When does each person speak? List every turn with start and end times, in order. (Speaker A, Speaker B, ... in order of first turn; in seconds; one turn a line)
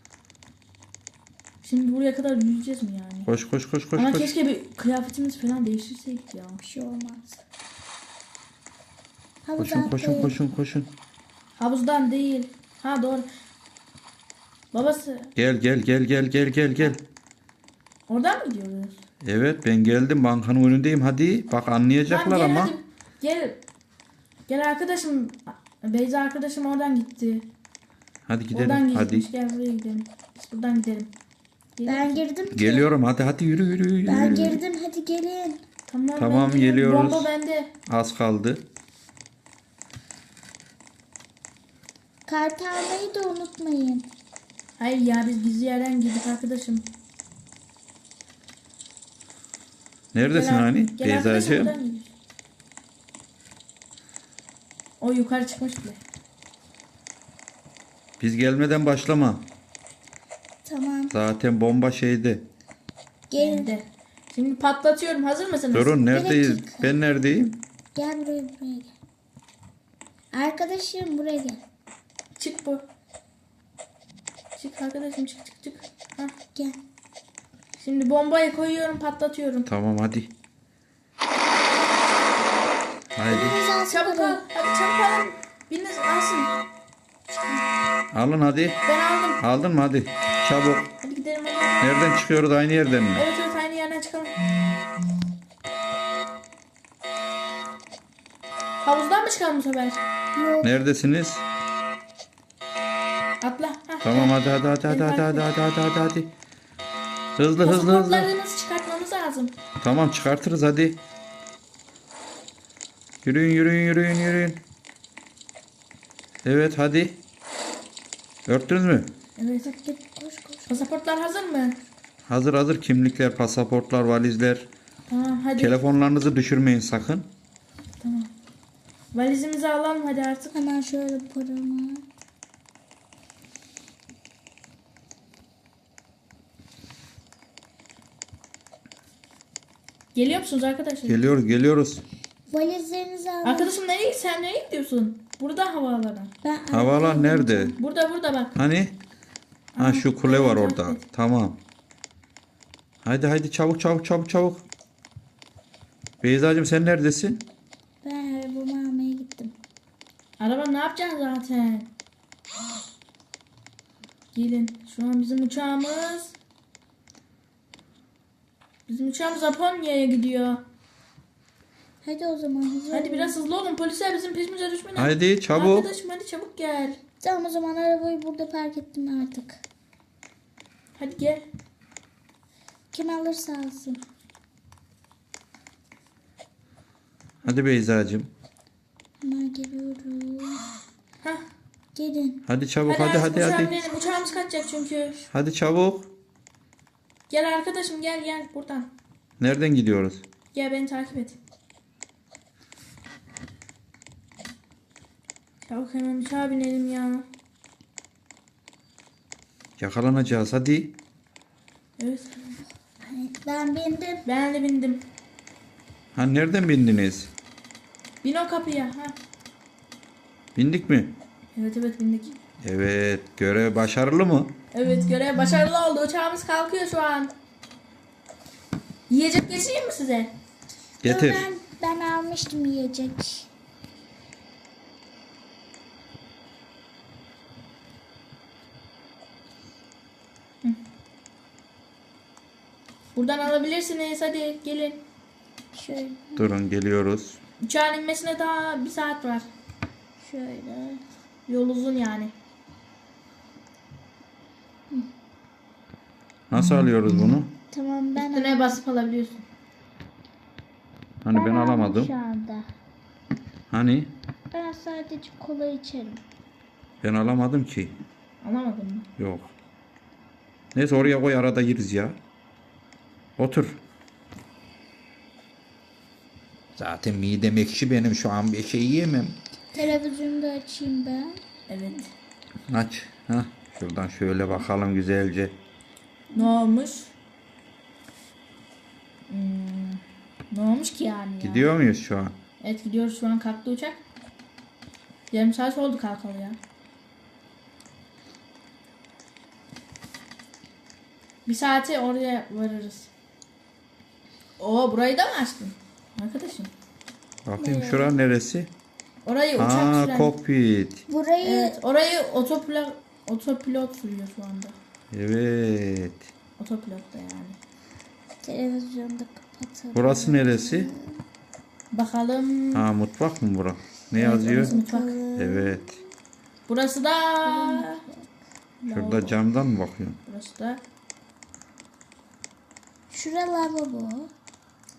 Speaker A: 1.6-3.3
Speaker B: 3.3-4.3
Speaker A: 4.0-6.6
Speaker C: 6.6-7.4
Speaker C: 9.4-10.4
Speaker B: 9.6-10.9
Speaker A: 11.6-13.3
Speaker A: 14.7-15.3
Speaker B: 15.4-17.0
Speaker A: 18.1-19.0
Speaker B: 19.2-22.8
Speaker A: 22.1-23.6
Speaker A: 24.5-27.5
Speaker B: 28.3-29.3
Speaker A: 28.5-31.1
Speaker A: 31.8-32.2
Speaker C: 31.9-32.9
Speaker B: 32.5-34.6
Speaker C: 34.1-35.6
Speaker A: 35.9-37.7
Speaker B: 36.2-37.3
Speaker B: 37.9-38.6
Speaker C: 42.3-44.1
Speaker A: 44.8-46.9
Speaker B: 50.1-51.7
Speaker A: 50.3-52.1
Speaker A: 55.0-56.0
Speaker B: 58.2-59.5
Speaker C: 60.6-61.1
Speaker B: 61.1-62.5
Speaker C: 63.3-63.7
Speaker A: 63.4-66.0
Speaker B: 65.7-67.6
Speaker C: 66.1-67.0
Speaker C: 68.0-68.9
Speaker C: 70.3-71.6
Speaker A: 72.4-72.8
Speaker A: 74.6-76.3
Speaker A: 77.8-79.7
Speaker B: 79.7-80.3
Speaker B: 83.1-83.6
Speaker C: 83.3-84.4
Speaker A: 83.9-86.6
Speaker B: 88.1-88.8
Speaker A: 88.9-89.4
Speaker B: 89.4-90.9
Speaker A: 91.0-92.0
Speaker B: 91.8-93.3
Speaker A: 93.2-94.5
Speaker A: 98.8-100.0
Speaker C: 100.4-100.7
Speaker B: 100.6-101.5
Speaker A: 103.4-104.4
Speaker B: 104.0-106.3
Speaker A: 104.9-105.5
Speaker B: 107.4-108.3
Speaker A: 107.6-109.5
Speaker B: 109.8-111.0
Speaker B: 113.2-114.6
Speaker B: 116.4-117.2
Speaker B: 118.5-119.1
Speaker A: 119.4-119.7
Speaker C: 119.6-120.9
Speaker A: 120.7-121.8
Speaker B: 122.3-124.7
Speaker A: 125.1-125.8
Speaker B: 125.6-127.3
Speaker A: 128.0-128.3
Speaker A: 129.1-130.6
Speaker C: 130.5-132.1
Speaker A: 140.2-141.3
Speaker B: 141.1-142.0
Speaker C: 142.5-143.7
Speaker A: 143.4-146.3
Speaker C: 146.4-147.8
Speaker B: 146.7-147.7
Speaker A: 147.8-148.5
Speaker B: 148.6-148.9
Speaker A: 149.8-151.0
Speaker B: 149.8-151.6
Speaker B: 153.1-154.6
Speaker B: 156.2-157.4
Speaker C: 158.0-159.5
Speaker A: 160.4-161.9
Speaker A: 164.3-166.3
Speaker A: 168.9-170.6
Speaker C: 172.0-173.4
Speaker A: 172.9-177.0
Speaker B: 174.9-175.9
Speaker C: 177.2-179.6
Speaker A: 181.0-181.4
Speaker C: 182.9-184.0
Speaker B: 187.4-188.3
Speaker C: 189.2-190.6
Speaker C: 191.9-192.4
Speaker B: 192.5-193.7
Speaker A: 192.8-195.2
Speaker C: 193.3-194.5
Speaker B: 195.3-196.1
Speaker A: 197.3-198.9
Speaker B: 199.4-200.2
Speaker A: 200.5-201.4
Speaker A: 205.7-207.2
Speaker B: 209.8-210.9
Speaker A: 212.0-212.4
Speaker C: 213.0-214.2
Speaker A: 214.2-215.1
Speaker B: 216.2-217.3
Speaker A: 218.2-219.2
Speaker B: 220.6-221.1
Speaker A: 221.6-222.4
Speaker B: 222.6-224.6
Speaker A: 224.7-227.3
Speaker A: 229.1-230.3
Speaker B: 231.0-231.5
Speaker C: 231.0-233.5
Speaker A: 243.2-245.0
Speaker C: 245.7-246.5
Speaker B: 246.4-247.4
Speaker A: 247.6-249.5
Speaker C: 250.2-251.0
Speaker A: 251.5-252.3
Speaker B: 256.5-257.5
Speaker C: 257.7-258.8
Speaker A: 258.2-259.4
Speaker B: 261.2-262.1
Speaker C: 261.3-262.7
Speaker B: 263.7-264.1
Speaker C: 264.5-266.2
Speaker B: 267.0-268.0
Speaker A: 268.4-269.1
Speaker B: 269.2-269.5
Speaker B: 270.8-272.2
Speaker B: 273.4-273.8
Speaker B: 276.8-279.4
Speaker C: 279.7-281.4
Speaker A: 281.7-282.1
Speaker B: 282.7-285.6
Speaker A: 286.3-287.1
Speaker A: 289.3-291.7
Speaker B: 291.4-292.4
Speaker A: 292.6-294.0
Speaker A: 295.3-296.6
Speaker A: 301.5-303.1
Speaker A: 304.6-306.7
Speaker B: 307.5-308.7
Speaker C: 307.6-308.2
Speaker A: 309.2-310.4
Speaker B: 309.6-311.0
Speaker C: 311.1-311.8
Speaker A: 311.4-314.8
Speaker B: 315.1-316.3
Speaker A: 316.6-317.6
Speaker C: 318.4-321.2
Speaker B: 319.9-320.9
Speaker A: 321.9-322.9
Speaker B: 322.7-324.8
Speaker A: 324.1-325.2
Speaker C: 324.5-326.0
Speaker B: 325.4-326.0
Speaker A: 326.7-328.0
Speaker C: 327.4-328.3
Speaker A: 328.8-329.4
Speaker B: 328.9-330.2
Speaker A: 330.3-330.8
Speaker C: 333.1-334.3